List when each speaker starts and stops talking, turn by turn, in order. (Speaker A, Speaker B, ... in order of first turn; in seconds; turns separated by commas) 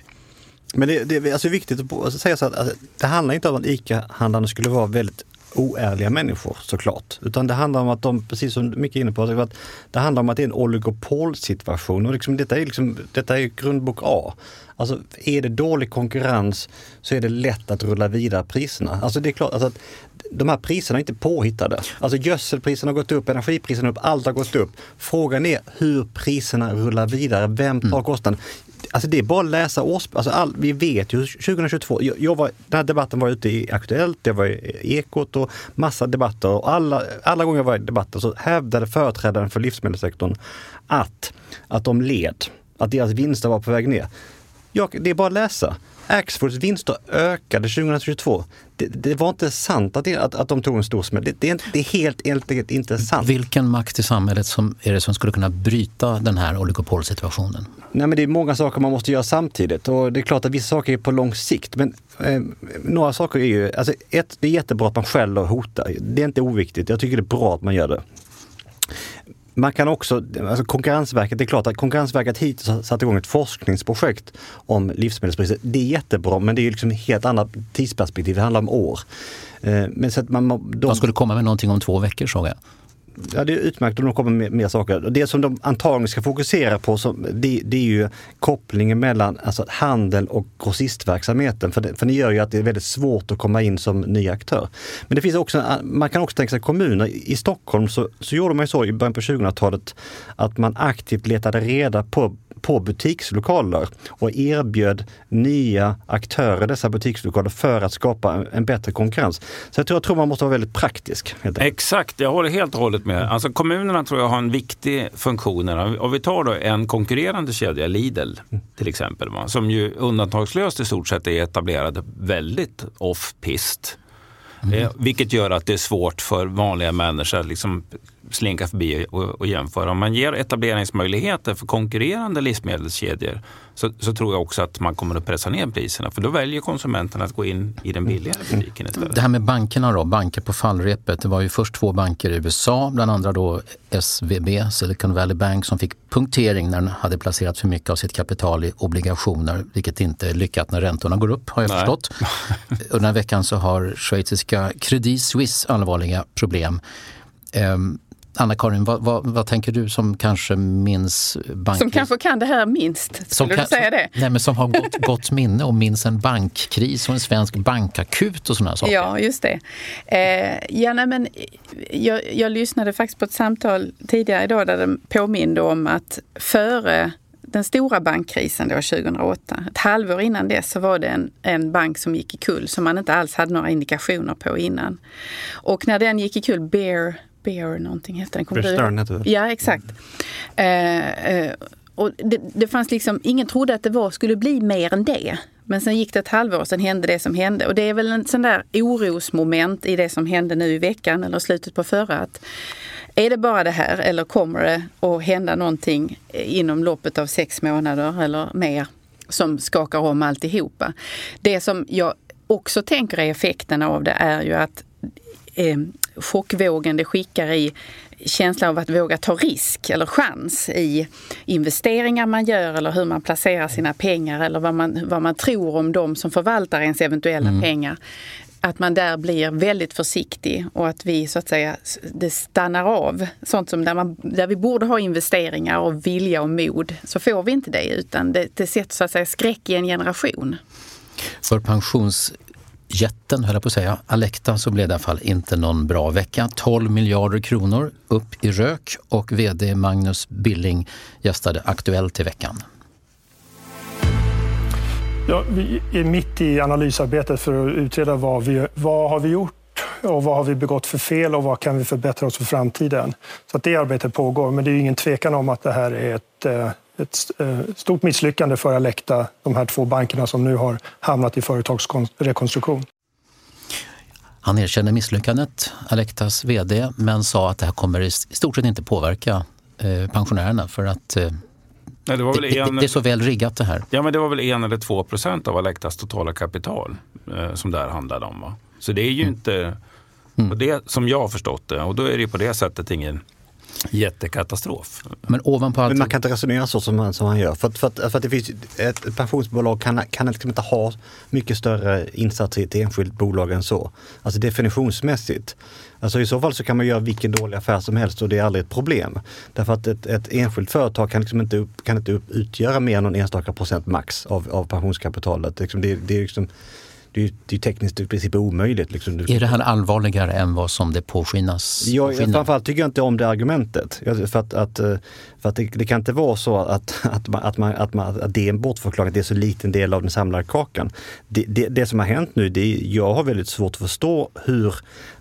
Speaker A: 0.7-28.4, Speaker A: 28.9-40.4, Speaker A: 40.9-44.1, Speaker A: 44.7-53.3, Speaker B: 53.1-57.7, Speaker A: 57.9-68.0, Speaker A: 69.5-79.0, Speaker A: 79.6-81.0, Speaker B: 80.8-82.6, Speaker A: 83.2-111.7, Speaker C: 111.6-124.0, Speaker C: 124.7-139.1, Speaker B: 139.0-152.2, Speaker B: 152.8-156.8, Speaker B: 157.5-162.1, Speaker D: 161.7-164.1, Speaker B: 163.3-169.1, Speaker D: 168.8-185.0, Speaker D: 185.6-190.0, Speaker A: 188.5-189.3, Speaker D: 190.6-202.4, Speaker D: 203.2-214.9, Speaker D: 215.5-228.0, Speaker D: 228.6-240.6, Speaker B: 241.4-242.3, Speaker B: 242.9-252.6, Speaker E: 255.3-272.9, Speaker B: 274.4-281.4, Speaker C: 282.1-282.9, Speaker B: 282.3-283.9, Speaker C: 283.9-289.8, Speaker C: 290.5-293.2, Speaker C: 293.9-295.0, Speaker B: 295.2-296.1, Speaker A: 295.9-316.5, Speaker A: 317.1-319.5, Speaker B: 319.3-322.5, Speaker A: 321.8-334.8